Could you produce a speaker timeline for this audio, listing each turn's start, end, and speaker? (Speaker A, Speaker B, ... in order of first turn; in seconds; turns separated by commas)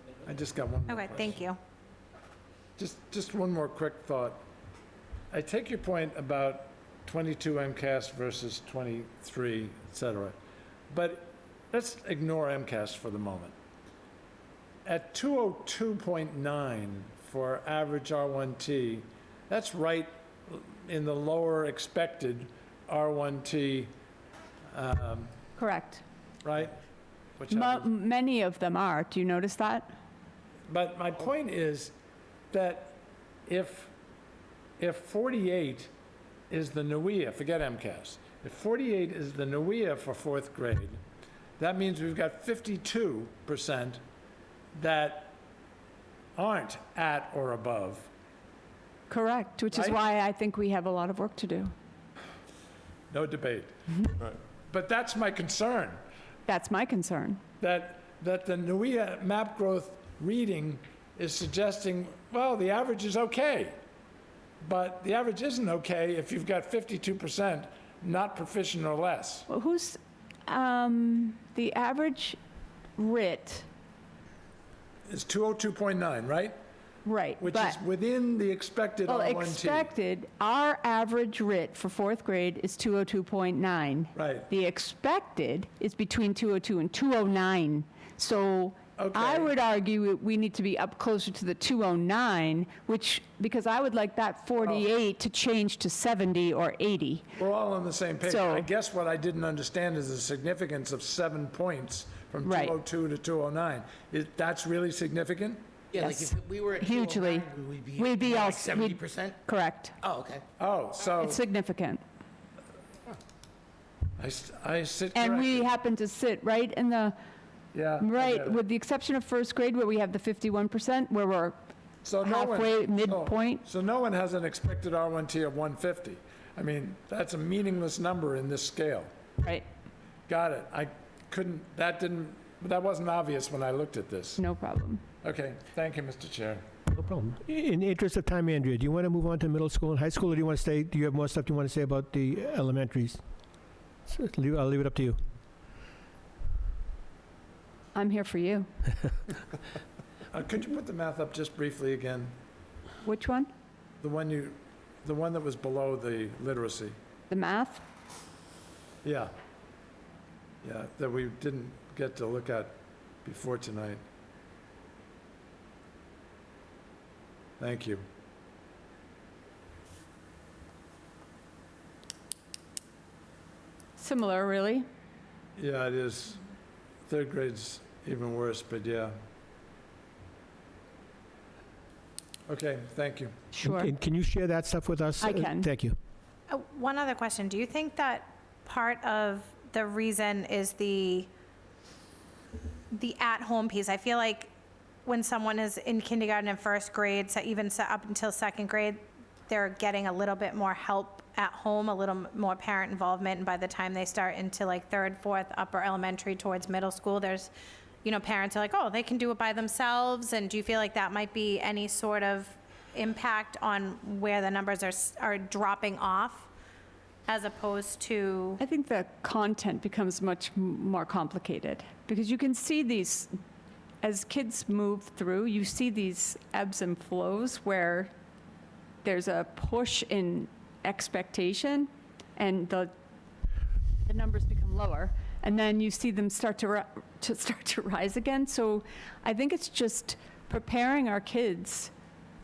Speaker A: 0.2-1.1, Speaker B: 0.9-1.6, Speaker A: 2.8-4.4, Speaker A: 5.3-10.3, Speaker A: 10.9-13.5, Speaker A: 14.8-23.9, Speaker A: 24.7-25.3, Speaker C: 25.6-26.0, Speaker A: 26.4-26.7, Speaker A: 27.4-27.9, Speaker C: 27.5-29.9, Speaker A: 30.7-31.9, Speaker A: 32.5-33.9, Speaker A: 34.8-35.9, Speaker A: 36.5-41.0, Speaker A: 41.6-44.0, Speaker A: 44.7-45.4, Speaker A: 46.4-48.1, Speaker C: 49.1-51.7, Speaker A: 49.7-50.0, Speaker A: 53.1-53.7, Speaker A: 54.7-56.0, Speaker C: 56.5-57.4, Speaker A: 57.6-63.8, Speaker A: 64.6-69.5, Speaker C: 69.5-72.4, Speaker C: 73.0-73.7, Speaker A: 75.1-76.6, Speaker C: 77.0-77.8, Speaker A: 77.4-79.9, Speaker C: 79.0-97.3, Speaker A: 84.1-84.5, Speaker A: 89.0-89.5, Speaker A: 94.6-94.9, Speaker A: 97.4-105.7, Speaker C: 98.2-98.7, Speaker C: 102.4-102.8, Speaker C: 105.9-110.0, Speaker D: 106.0-109.3, Speaker D: 110.0-110.4, Speaker A: 110.6-111.4, Speaker C: 111.1-112.0, Speaker A: 114.2-115.7, Speaker C: 115.1-117.1, Speaker A: 117.7-118.6, Speaker C: 118.0-121.5, Speaker A: 122.0-129.1, Speaker C: 122.2-123.6, Speaker A: 130.3-134.4, Speaker C: 134.4-135.0, Speaker A: 135.2-136.6, Speaker E: 136.9-143.2, Speaker E: 144.1-145.2, Speaker C: 147.9-148.7, Speaker A: 150.3-152.3, Speaker C: 153.0-153.5, Speaker A: 154.0-156.9, Speaker C: 157.3-157.8, Speaker A: 159.0-159.3, Speaker A: 160.6-164.0, Speaker A: 167.6-168.0, Speaker C: 174.0-174.8, Speaker A: 175.6-176.4, Speaker A: 177.1-179.1, Speaker A: 182.5-183.3, Speaker C: 183.5-183.9, Speaker E: 183.6-185.9, Speaker C: 185.2-185.7, Speaker B: 186.5-191.3, Speaker B: 192.9-194.5, Speaker B: 195.1-207.5, Speaker B: 208.0-216.5, Speaker B: 217.3-218.6, Speaker C: 218.6-223.3, Speaker C: 224.0-228.1, Speaker C: 229.0-232.9, Speaker C: 234.0-241.9